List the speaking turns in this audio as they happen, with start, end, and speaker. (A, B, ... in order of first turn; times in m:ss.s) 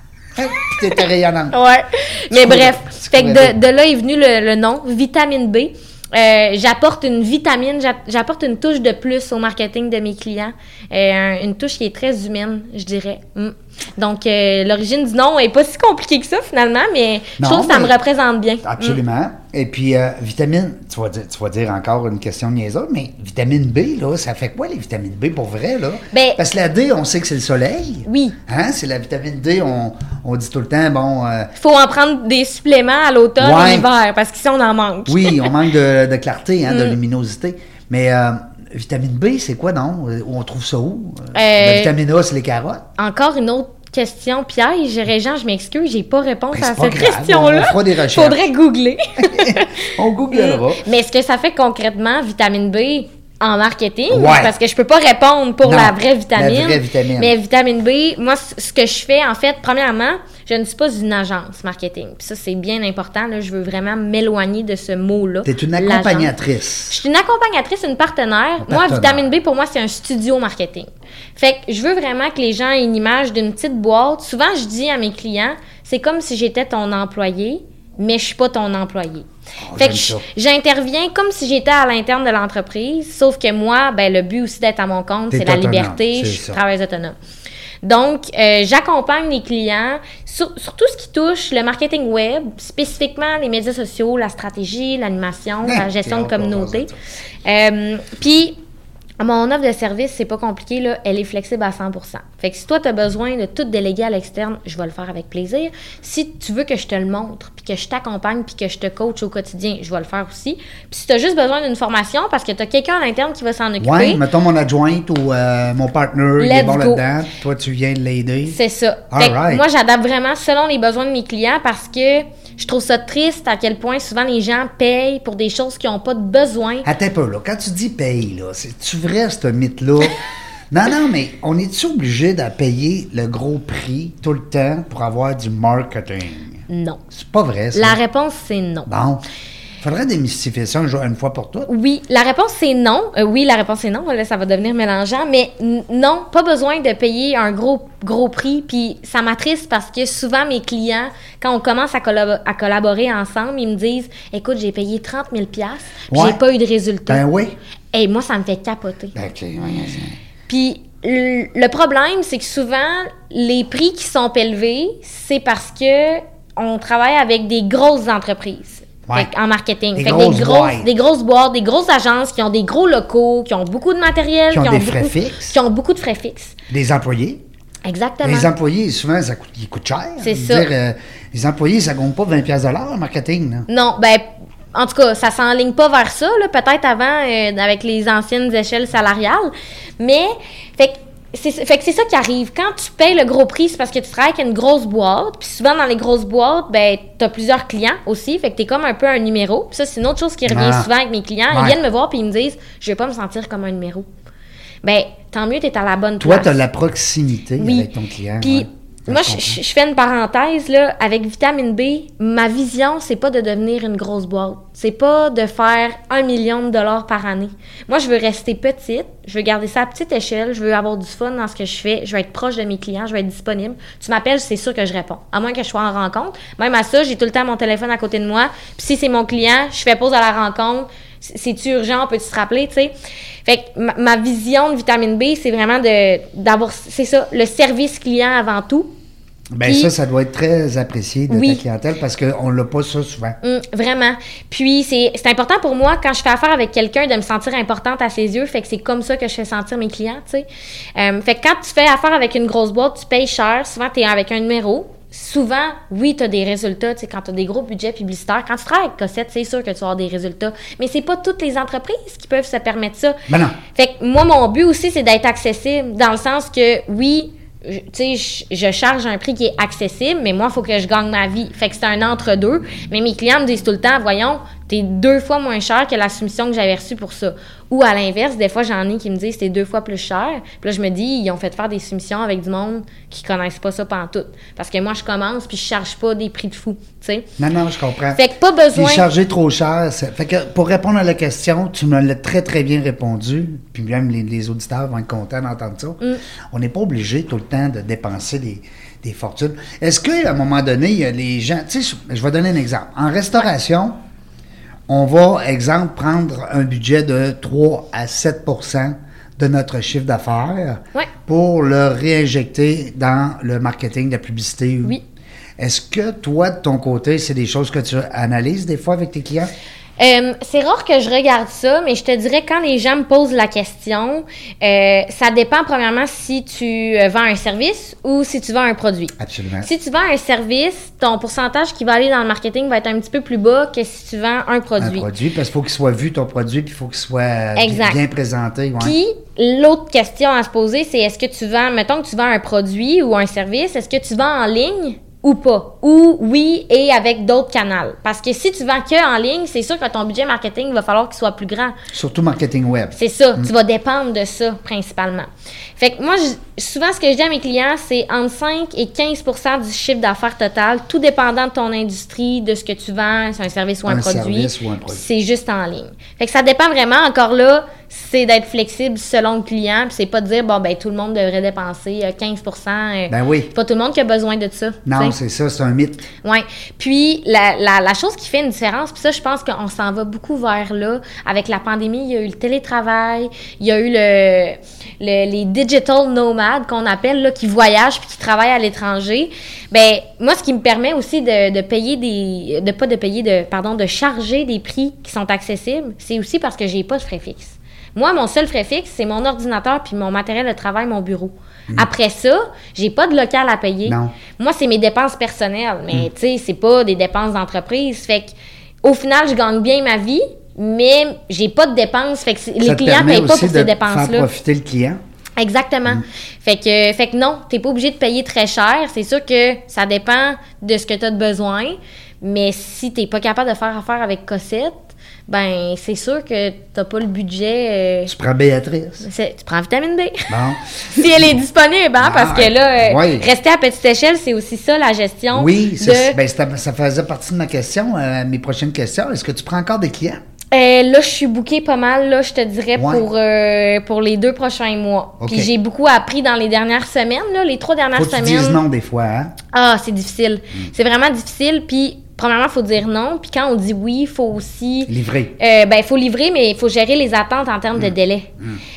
0:00.4-0:01.6 A
0:01.5-0:19.0 B
0:02.3-0:03.6 A
0:17.4-0:18.0 A
0:18.6-0:31.5 A
0:26.1-0:26.4 B
0:28.0-0:28.4 B
0:31.6-0:35.5 B
0:33.4-0:33.9 A
0:35.1-0:42.9 A
0:36.7-0:37.0 B
0:41.3-0:41.9 B
0:43.0-1:06.3 B
0:46.5-0:48.5 A
0:49.2-0:50.8 A
0:54.1-0:54.5 A
0:55.6-0:57.3 A
1:05.4-1:07.0 A
1:06.9-1:27.2 B
1:08.6-1:09.2 A
1:19.7-1:20.2 A
1:25.3-1:26.6 A
1:27.8-1:36.9 B
1:35.6-1:37.0 A
1:37.4-1:38.6 B
1:39.2-1:54.2 B
1:53.8-1:58.6 A
1:56.4-1:57.0 B
1:58.5-2:06.9 B
1:59.1-1:59.6 A
2:06.8-2:18.0 A
2:16.7-2:17.0 B
2:17.7-2:18.9 B
2:18.9-2:19.2 A
2:19.8-2:21.7 A
2:21.7-2:37.2 B
2:36.1-2:36.4 A
2:37.1-2:37.6 A
2:37.9-2:39.2 B
2:39.1-2:40.2 A
2:40.5-2:56.6 B
2:50.0-2:50.9 A
2:54.5-2:55.6 A
2:56.7-2:57.4 A
2:57.8-2:58.5 B
2:58.2-3:03.7 A
3:00.2-3:00.7 B
3:03.7-3:24.1 B
3:20.5-3:20.9 A
3:21.5-3:21.8 A
3:24.8-3:26.6 B
3:26.2-3:29.6 A
3:27.6-3:27.9 B
3:28.4-3:52.9 B
3:53.4-3:58.9 B
3:59.5-4:03.4 A
3:59.6-3:59.9 B
4:01.3-4:01.6 B
4:03.4-4:23.2 B
4:23.3-4:23.6 A
4:23.7-4:47.3 B
4:47.4-4:48.2 A
4:48.1-4:49.1 B
4:48.7-4:56.0 A
4:56.5-5:04.0 A
5:04.9-5:15.0 A
5:15.6-5:19.5 A
5:20.0-5:35.1 B
5:29.2-5:29.7 A
5:34.8-5:39.0 A
5:37.6-5:38.0 B
5:38.8-5:51.8 B
5:51.9-5:53.5 A
5:53.0-6:15.2 B
6:03.9-6:05.0 A
6:13.1-6:13.5 A
6:14.8-6:16.1 A
6:16.2-6:54.3 B
6:43.9-6:44.2 A
6:52.6-6:55.0 A
6:55.4-7:08.1 B
7:08.1-7:09.0 A
7:09.0-7:10.4 B
7:10.3-7:11.3 A
7:10.9-7:16.2 B
7:12.0-7:13.3 A
7:15.3-7:20.2 A
7:20.5-7:28.6 B
7:22.8-7:23.1 A
7:25.2-7:25.5 A
7:28.0-7:29.3 A
7:29.5-7:38.3 B
7:34.9-7:35.4 A
7:37.8-7:38.6 A